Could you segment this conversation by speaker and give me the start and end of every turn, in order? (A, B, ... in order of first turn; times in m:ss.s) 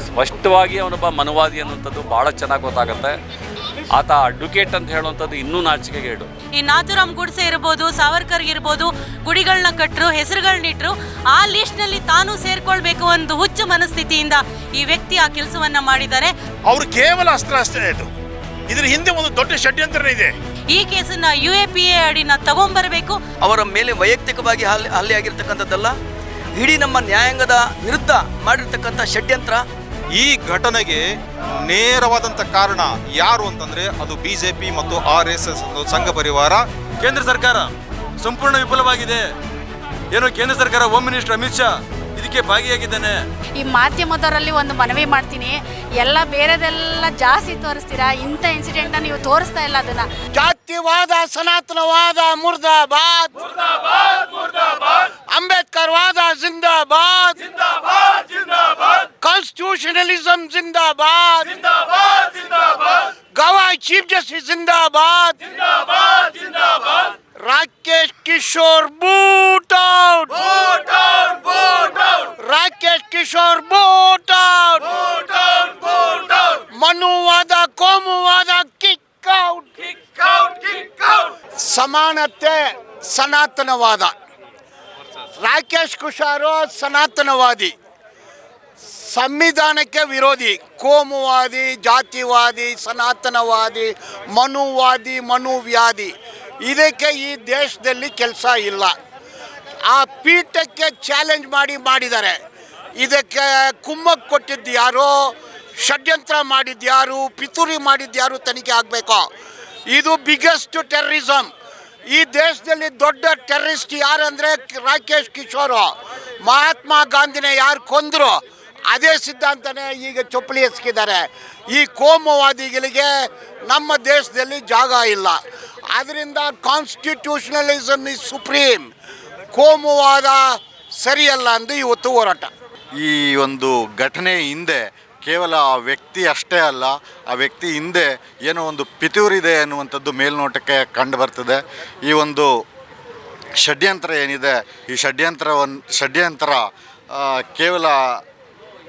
0:00.2-0:03.2 A
0:04.0-0:06.3 A
0:06.6-0:16.3 B
0:16.7-0:18.1 C
0:18.7-0:20.3 C
0:20.7-0:23.2 B
0:23.4-0:26.0 D
0:26.6-0:29.6 D
0:30.2-0:31.0 E
0:31.7-0:36.6 E
0:37.0-0:37.7 F
0:38.2-0:39.2 F
0:40.1-0:43.2 F
0:43.6-0:50.1 G
0:50.4-0:53.3 H
0:55.3-0:57.4 H
0:58.3-1:06.9 H
1:07.4-1:19.8 H
1:20.3-1:21.0 H
1:21.6-1:24.1 H
1:25.4-1:27.7 H
1:29.1-1:36.1 H
1:36.6-1:38.9 H
1:39.9-1:42.4 H
1:43.0-1:45.2 H
1:45.8-1:49.2 H
1:49.9-1:51.5 H
1:52.1-1:55.9 H
1:56.4-1:58.4 H
1:58.9-2:03.1 H
2:03.7-2:05.4 H
2:05.9-2:08.9 H
2:09.5-2:10.4 H
2:11.0-2:12.5 H
2:13.0-2:22.6 I
2:23.6-2:28.2 I